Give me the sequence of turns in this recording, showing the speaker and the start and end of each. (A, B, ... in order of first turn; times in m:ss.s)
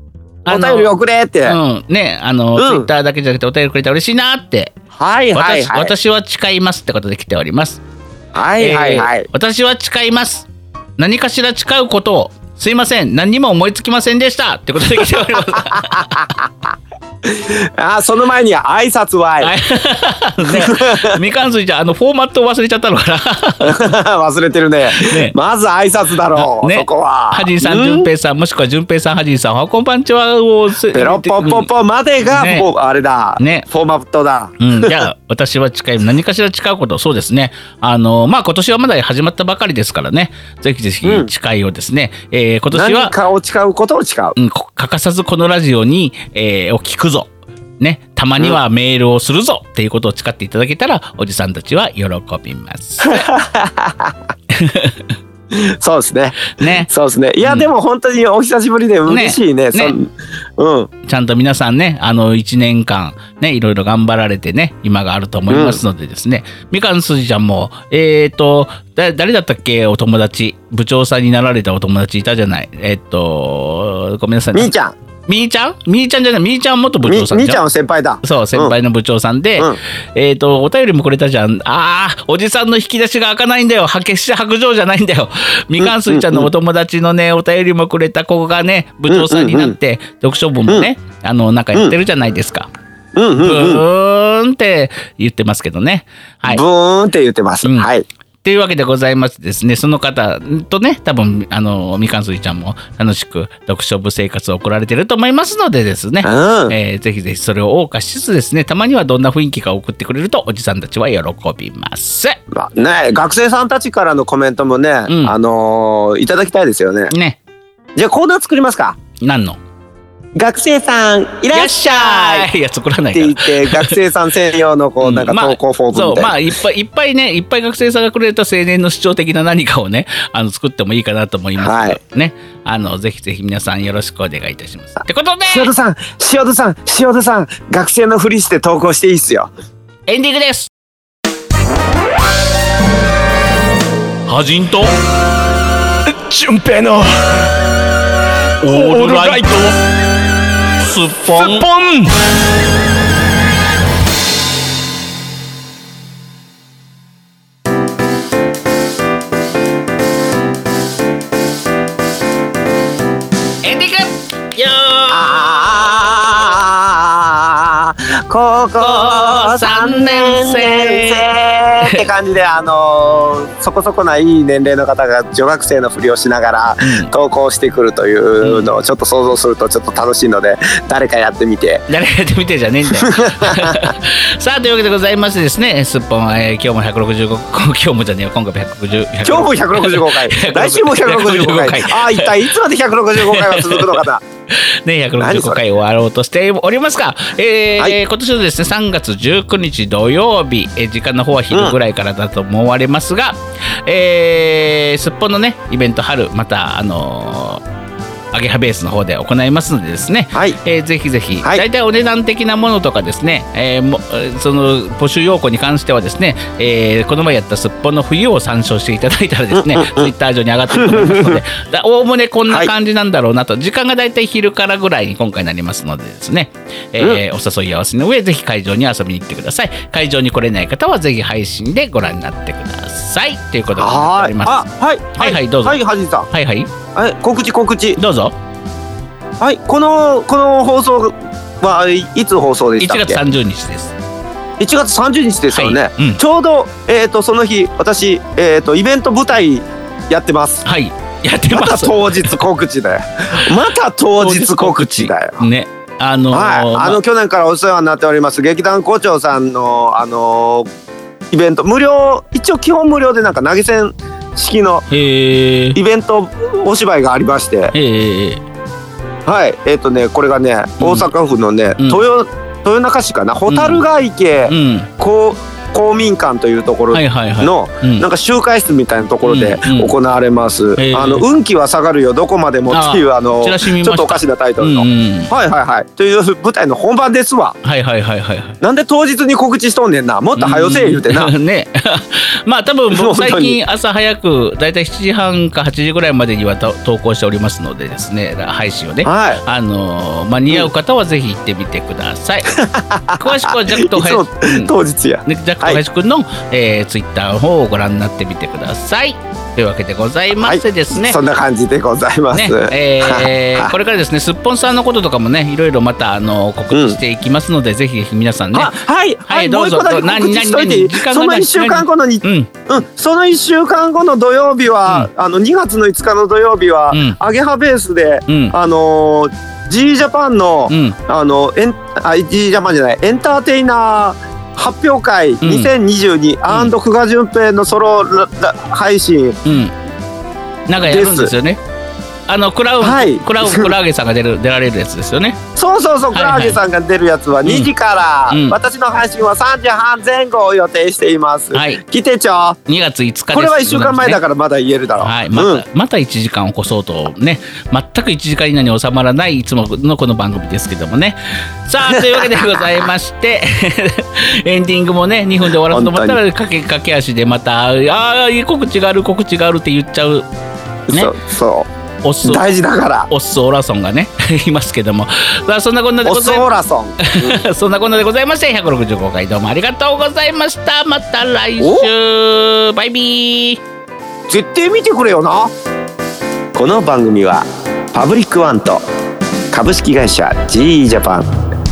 0:00.4-0:00.9 A
0:00.5-0:01.6 B
0:01.4-0:04.8 A
0:02.6-0:02.9 B
0:05.0-0:05.9 B
0:05.3-0:07.8 A
0:08.3-0:09.3 B
0:08.6-0:16.3 A
0:14.9-0:16.7 B
0:17.2-0:19.5 B
0:19.4-0:23.8 A
0:20.4-0:21.2 B
0:23.6-0:28.1 B
0:24.9-0:25.3 A
0:26.3-0:31.7 A
0:30.9-0:35.1 B
0:32.2-0:32.7 A
0:33.4-0:33.7 A
0:34.6-0:43.1 A
0:41.0-0:41.3 B
0:42.7-0:44.4 B
0:44.4-0:47.3 A
0:47.8-0:53.2 A
0:53.0-0:54.2 B
0:54.5-0:55.1 A
0:55.5-1:00.9 B
0:56.5-0:56.9 A
0:57.4-0:57.7 A
0:59.1-1:00.0 A
1:01.0-1:14.7 A
1:05.5-1:05.8 B
1:14.5-1:14.9 B
1:15.3-1:17.6 A
1:17.0-1:18.7 B
1:18.2-1:32.7 A
1:25.8-1:26.5 B
1:29.1-1:29.8 B
1:33.2-1:33.8 B
1:33.4-1:36.6 A
1:36.5-1:38.0 B
1:37.6-1:37.9 A
1:38.4-1:52.4 A
1:46.2-1:46.7 B
1:52.5-1:57.1 B
1:55.1-1:55.3 A
1:57.1-1:57.4 A
1:58.0-1:59.0 B
1:59.2-1:59.6 A
2:00.4-2:02.5 B
2:01.5-2:04.0 A
2:03.1-2:06.3 B
2:05.0-2:15.7 A
2:11.6-2:12.0 B
2:15.5-2:19.5 B
2:20.1-2:20.7 A
2:24.3-2:24.9 A
2:26.1-2:27.3 C
2:28.6-2:29.5 A
2:28.6-2:29.7 C
2:30.8-2:31.7 A
2:31.2-2:32.1 C
2:43.6-2:46.3 A
2:45.1-3:01.8 B
2:48.8-2:51.3 A
2:51.8-2:52.1 A
2:56.8-2:57.1 A
2:58.4-2:58.7 A
3:01.9-3:12.4 A
3:03.0-3:03.9 B
3:09.2-3:14.2 B
3:13.2-3:27.6 A
3:15.2-3:15.6 B
3:28.3-3:54.6 A
3:39.5-3:40.1 B
3:40.7-3:41.4 B
3:53.8-3:56.3 B
3:55.2-3:56.7 A
3:56.9-3:58.0 B
3:58.0-3:58.3 A
3:59.4-4:03.2 B
4:02.8-4:03.9 A
4:04.6-4:10.6 B
4:05.5-4:06.2 A
4:10.6-4:12.4 A
4:11.5-4:15.4 B
4:14.2-4:17.0 A
4:16.3-4:20.7 B
4:21.3-4:24.8 B
4:24.9-4:25.8 A
4:25.7-4:27.7 B
4:27.7-4:28.4 A
4:29.2-4:47.6 B
4:30.8-4:31.1 A
4:33.5-4:33.8 A
4:34.5-4:34.9 A
4:36.9-4:38.1 A
4:39.2-4:39.9 A
4:40.8-4:41.2 A
4:42.7-4:45.3 A
4:47.6-4:48.6 A
4:48.6-4:51.3 B
4:50.4-5:02.6 A
4:52.9-4:53.6 B
4:59.0-4:59.4 B
5:02.5-5:05.8 B
5:03.1-5:04.7 A
5:05.2-5:11.2 A
5:10.4-5:13.7 B
5:12.3-5:22.5 A
5:16.7-5:17.0 B
5:18.5-5:39.4 B
5:26.9-5:27.2 A
5:28.3-5:28.5 A
5:30.7-5:31.0 A
5:35.4-5:35.7 A
5:39.4-5:39.7 A
5:40.7-5:41.6 A
5:40.8-5:41.3 B
5:42.3-5:45.4 A
5:42.8-5:43.7 B
5:45.6-5:52.6 B
5:46.1-5:46.6 A
5:47.4-5:47.7 A
5:48.3-5:48.6 A
5:51.5-5:51.8 A
5:52.7-5:54.2 A
5:53.3-5:55.6 B
5:55.0-6:10.2 A
6:01.8-6:02.9 B
6:05.7-6:06.2 B
6:10.9-6:11.7 B
6:12.0-6:12.4 A
6:12.2-6:13.1 B
6:13.1-6:16.5 A
6:16.0-6:17.4 B
6:17.0-6:23.6 A
6:21.6-6:21.9 B
6:24.3-6:25.5 B
6:26.5-6:28.8 B
6:29.5-6:31.3 B